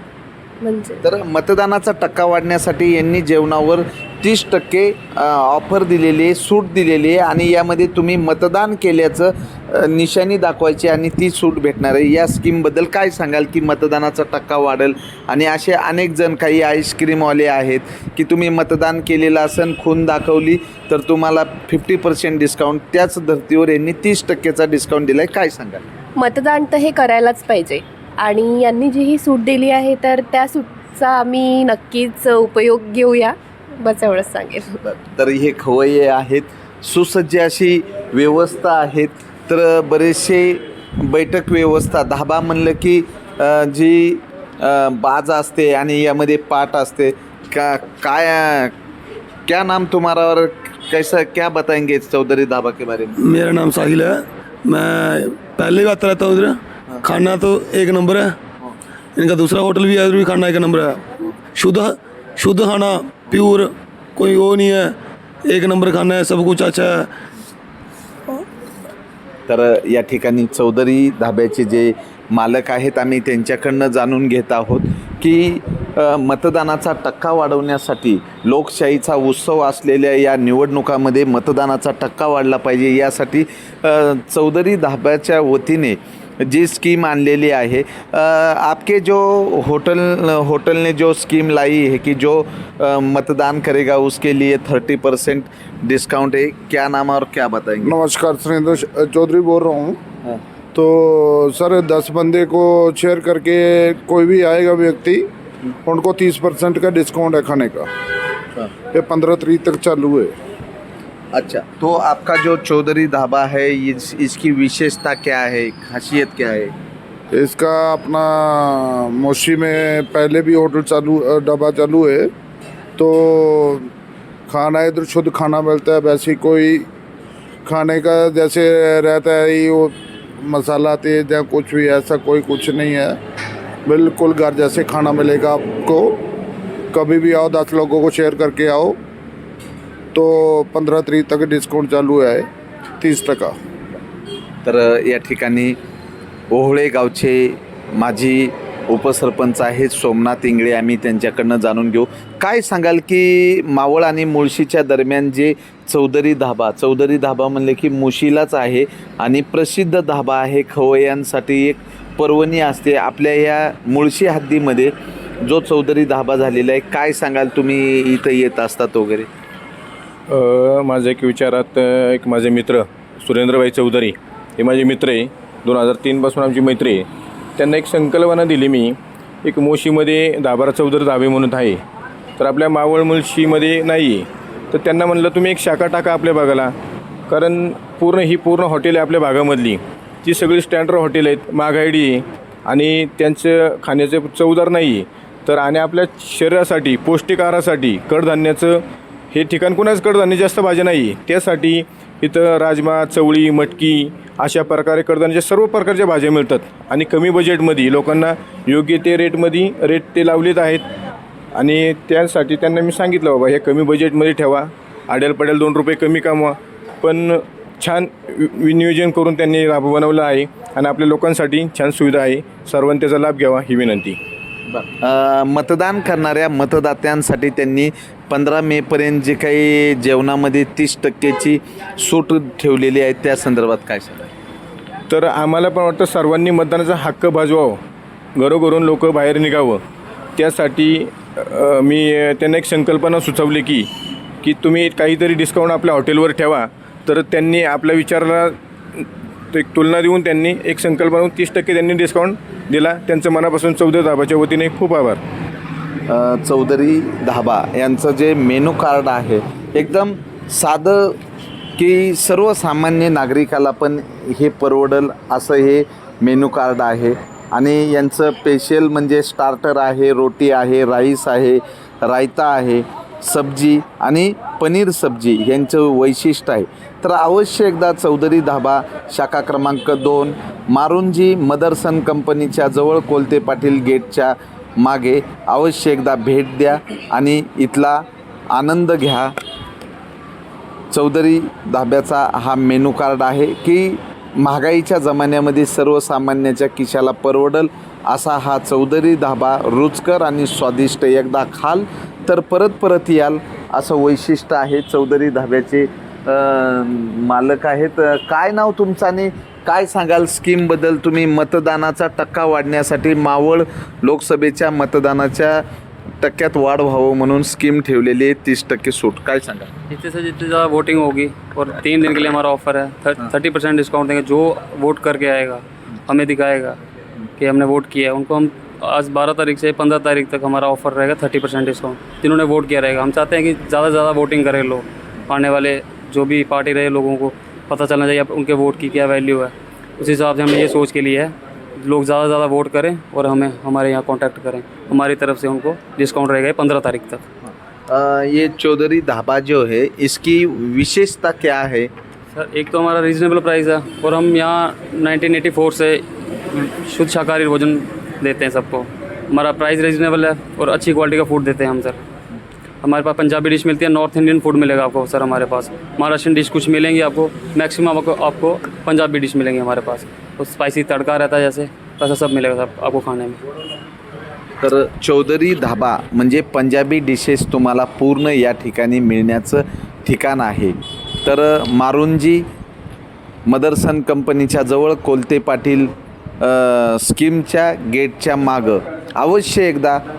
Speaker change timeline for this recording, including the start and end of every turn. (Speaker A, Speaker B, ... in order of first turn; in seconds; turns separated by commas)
Speaker A: 0.6-1.0, Speaker B: 1.0-25.8, Speaker A: 26.1-34.8, Speaker B: 34.8-48.7, Speaker B: 49.5-53.1, Speaker C: 53.2-58.4, Speaker C: 59.1-64.9, Speaker C: 65.5-67.1, Speaker B: 69.5-97.9, Speaker D: 97.8-100.0, Speaker D: 100.7-105.2, Speaker D: 105.8-107.9, Speaker D: 108.9-110.3, Speaker B: 111.3-116.7, Speaker D: 117.3-122.3, Speaker D: 123.0-123.9, Speaker D: 124.5-126.8, Speaker D: 127.7-133.2, Speaker D: 133.9-136.1, Speaker D: 136.9-139.0, Speaker D: 140.1-142.5, Speaker D: 143.0-143.5, Speaker B: 144.6-145.8, Speaker B: 146.5-169.3, Speaker E: 170.3-177.1, Speaker E: 177.6-181.8, Speaker E: 182.4-186.7, Speaker E: 187.3-210.8, Speaker E: 211.5-224.2, Speaker B: 224.7-234.3, Speaker E: 235.1-237.8, Speaker E: 238.3-239.8, Speaker E: 240.3-243.9, Speaker E: 244.4-255.2, Speaker B: 256.1-261.2, Speaker B: 261.8-289.3, Speaker B: 290.9-315.6, Speaker B: 316.2-319.7, Speaker F: 319.9-326.8, Speaker F: 327.4-347.2, Speaker B: 347.4-351.9, Speaker F: 352.3-362.0, Speaker F: 362.8-373.4, Speaker B: 374.6-382.4, Speaker B: 383.5-390.0